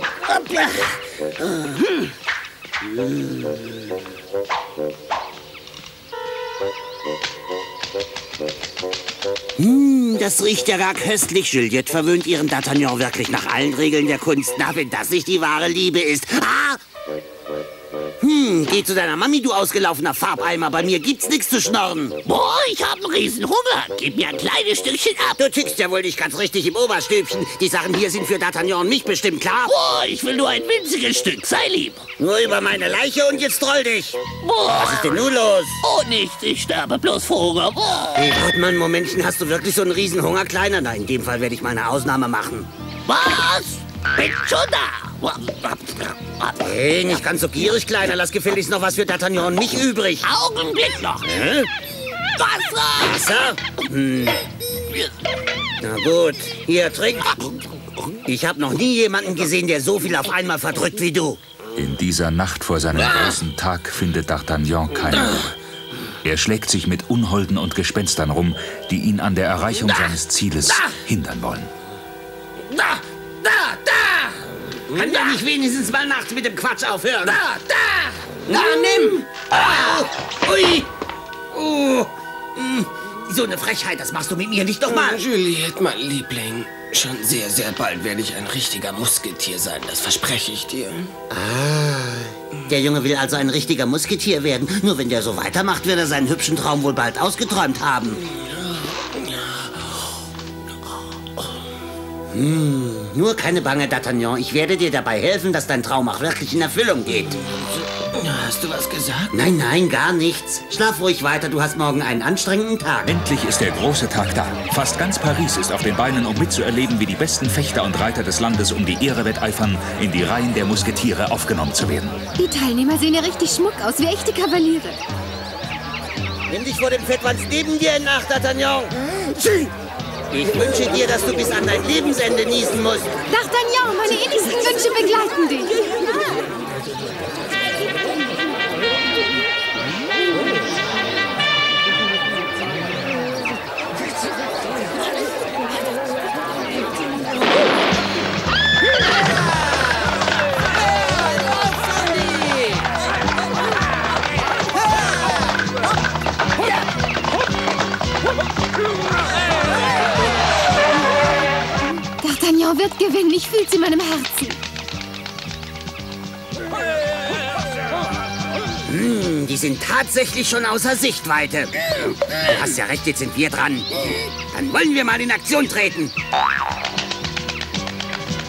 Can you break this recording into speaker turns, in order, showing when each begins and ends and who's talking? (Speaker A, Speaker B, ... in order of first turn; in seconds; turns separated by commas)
Speaker A: 0.3-1.8, Speaker A: 9.6-16.8, Speaker A: 18.2-22.2, Speaker B: 22.2-25.4, Speaker A: 25.4-29.7, Speaker B: 29.6-32.0, Speaker A: 32.2-34.2, Speaker B: 34.4-35.2, Speaker A: 34.7-35.8, Speaker B: 35.8-38.3, Speaker A: 38.1-42.7, Speaker B: 43.1-47.2, Speaker A: 46.6-50.2, Speaker B: 50.2-51.3, Speaker A: 51.2-51.7, Speaker B: 52.4-53.2, Speaker A: 53.0-54.4, Speaker A: 55.8-57.4, Speaker A: 58.2-61.4, Speaker C: 61.8-65.5, Speaker C: 66.2-71.7, Speaker B: 73.4-74.2, Speaker A: 74.9-77.4, Speaker D: 78.5-79.2, Speaker A: 78.5-80.9, Speaker A: 81.5-85.2, Speaker D: 84.9-91.1, Speaker A: 91.3-98.2, Speaker D: 99.2-99.9, Speaker A: 102.3-107.4, Speaker D: 107.5-109.3, Speaker A: 109.3-113.1, Speaker C: 113.0-122.2, Speaker E: 122.4-125.0, Speaker A: 126.5-128.9, Speaker A: 130.3-133.1, Speaker E: 133.3-135.8, Speaker D: 151.7-152.6, Speaker E: 162.2-164.6, Speaker A: 168.8-171.8, Speaker A: 172.4-173.9, Speaker A: 174.5-176.1